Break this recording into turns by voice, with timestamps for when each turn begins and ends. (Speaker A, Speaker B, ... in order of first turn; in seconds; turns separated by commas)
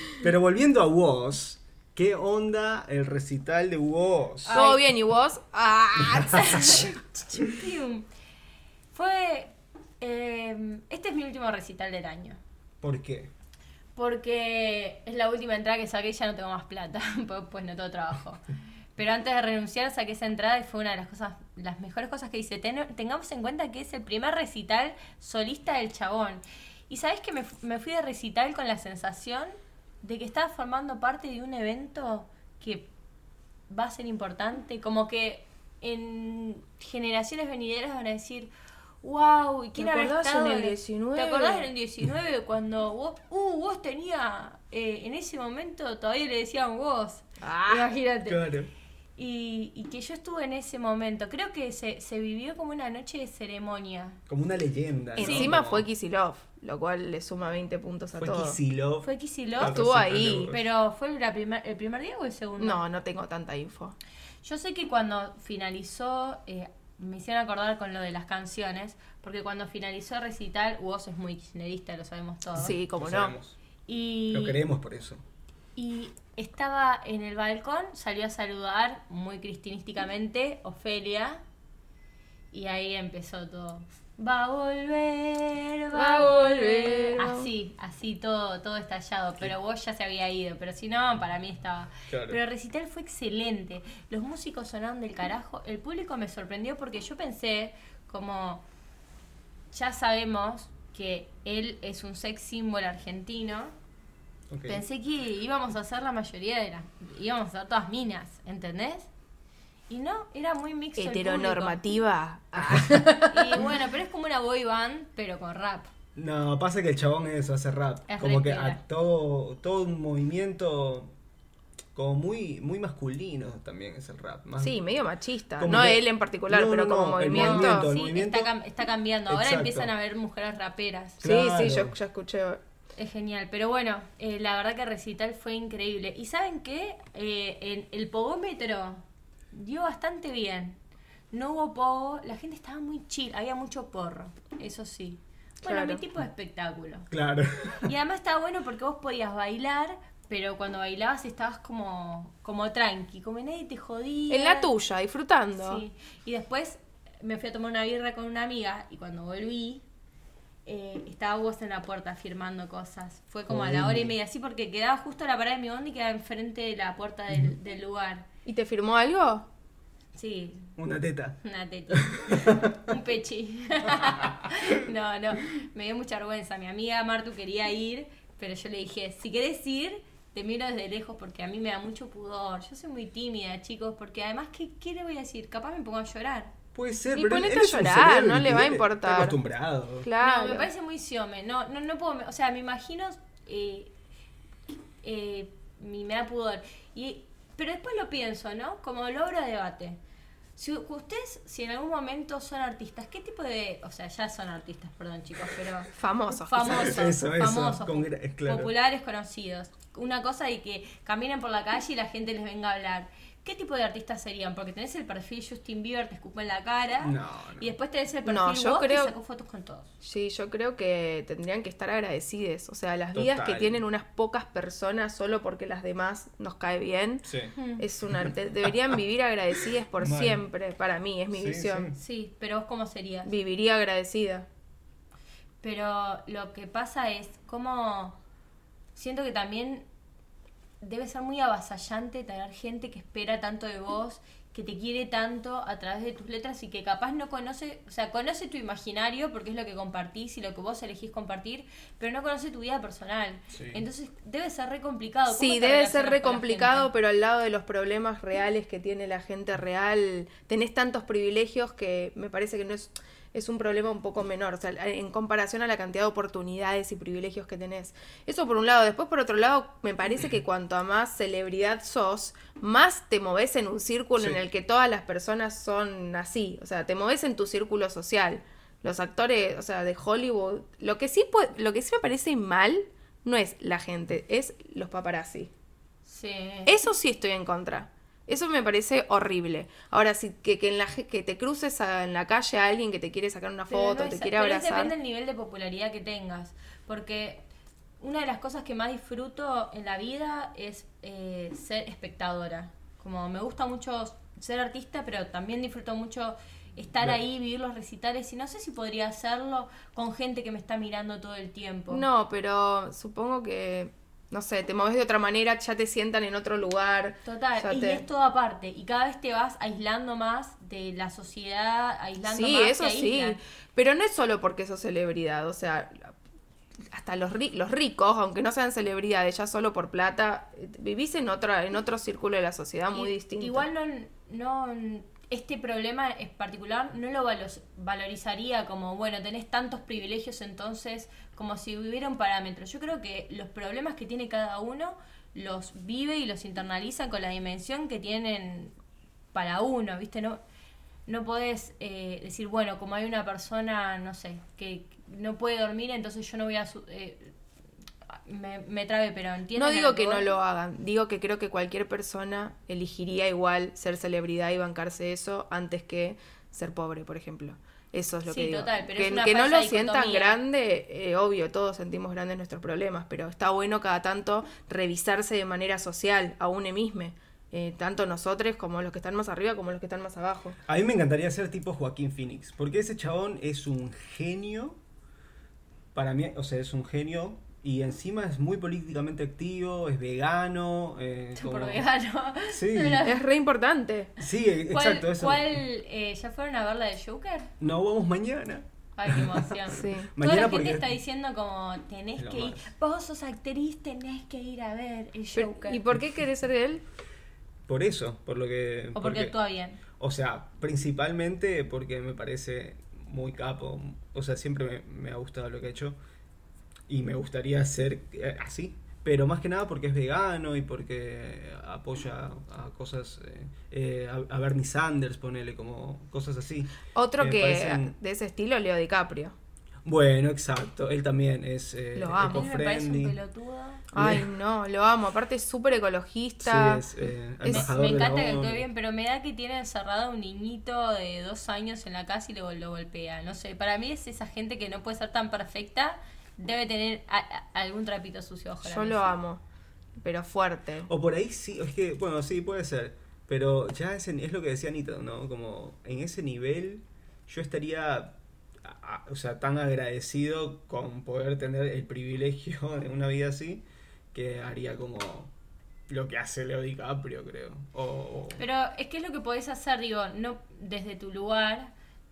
Speaker A: 0.2-4.5, Speaker B: 4.5-4.9, Speaker C: 4.5-6.9, Speaker B: 6.2-8.1, Speaker A: 6.3-6.8, Speaker B: 8.9-12.4, Speaker A: 12.8-13.3, Speaker B: 14.0-18.4, Speaker B: 19.0-32.9, Speaker B: 33.7-38.5, Speaker B: 39.0-48.4, Speaker C: 39.8-41.7, Speaker C: 47.4-48.0, Speaker A: 48.3-48.7, Speaker B: 49.2-54.2, Speaker A: 54.3-55.9, Speaker C: 55.2-58.6, Speaker B: 55.2-55.5, Speaker A: 58.2-60.6, Speaker B: 59.0-59.9, Speaker C: 59.6-60.5, Speaker B: 60.4-62.8, Speaker C: 62.6-64.0, Speaker B: 64.4-72.8, Speaker C: 72.6-73.3, Speaker A: 72.6-73.6, Speaker B: 73.9-74.6, Speaker A: 74.3-75.2, Speaker B: 75.8-81.4, Speaker B: 82.5-98.7, Speaker C: 85.9-87.5, Speaker A: 92.1-92.4, Speaker B: 99.7-103.7, Speaker A: 104.5-104.8, Speaker B: 104.7-109.1, Speaker B: 109.9-111.8, Speaker C: 111.0-113.7, Speaker B: 113.1-115.9, Speaker A: 116.2-121.1, Speaker B: 118.1-118.8, Speaker A: 121.9-124.9, Speaker C: 124.6-127.9, Speaker A: 125.6-128.5, Speaker B: 127.3-131.2, Speaker A: 129.3-129.9, Speaker A: 131.2-132.0, Speaker C: 131.2-132.6, Speaker B: 133.0-140.8, Speaker B: 141.3-147.1, Speaker C: 145.6-146.0, Speaker A: 147.1-147.9, Speaker B: 147.8-154.7, Speaker C: 154.3-155.8, Speaker B: 155.6-159.8, Speaker B: 160.7-168.3, Speaker A: 163.5-164.1, Speaker C: 168.5-169.5, Speaker B: 170.2-170.7, Speaker A: 170.8-171.4, Speaker B: 171.4-186.5, Speaker A: 171.9-172.8, Speaker A: 173.9-174.6, Speaker A: 186.7-190.1, Speaker C: 187.1-189.4, Speaker C: 190.0-190.7, Speaker B: 190.2-193.9, Speaker B: 195.0-200.0, Speaker B: 200.6-219.9, Speaker C: 205.9-207.1, Speaker A: 206.6-208.7, Speaker A: 217.0-217.7, Speaker C: 218.2-219.1, Speaker C: 220.0-227.3, Speaker A: 223.1-223.8, Speaker A: 227.3-227.5, Speaker B: 227.6-227.9, Speaker C: 227.8-231.9, Speaker A: 228.1-229.0, Speaker A: 230.0-230.4, Speaker A: 231.3-232.0, Speaker B: 231.9-233.3, Speaker C: 233.3-234.5, Speaker B: 235.6-238.2, Speaker B: 238.9-239.9, Speaker B: 240.8-256.9, Speaker A: 253.5-253.8, Speaker C: 255.3-285.5, Speaker B: 286.1-286.8, Speaker C: 286.7-294.9, Speaker B: 293.7-297.4, Speaker B: 298.0-312.1, Speaker C: 311.9-318.1, Speaker B: 317.3-323.4, Speaker C: 322.2-326.1, Speaker C: 326.9-333.7, Speaker B: 332.9-348.8, Speaker B: 349.3-350.4, Speaker B: 351.1-357.3, Speaker B: 358.1-360.3, Speaker C: 359.6-380.6, Speaker B: 368.3-370.4, Speaker A: 380.7-384.8, Speaker A: 385.9-391.8, Speaker B: 391.4-393.2, Speaker A: 392.5-393.1, Speaker C: 393.0-394.1, Speaker A: 394.2-395.6, Speaker B: 394.7-397.5, Speaker A: 397.6-400.9, Speaker B: 399.0-405.8, Speaker C: 399.7-400.1, Speaker A: 402.2-402.7, Speaker C: 405.3-406.8, Speaker A: 407.7-409.3, Speaker B: 408.9-409.8, Speaker A: 410.0-416.0, Speaker A: 416.9-427.9, Speaker C: 426.9-429.4, Speaker A: 429.9-433.2, Speaker C: 431.9-432.5, Speaker B: 432.2-433.9, Speaker C: 433.9-436.9, Speaker A: 433.9-434.3, Speaker A: 436.4-438.7, Speaker B: 437.5-449.1, Speaker C: 448.6-449.4, Speaker C: 450.0-450.9, Speaker A: 450.9-465.3, Speaker A: 465.9-468.4, Speaker B: 468.4-471.7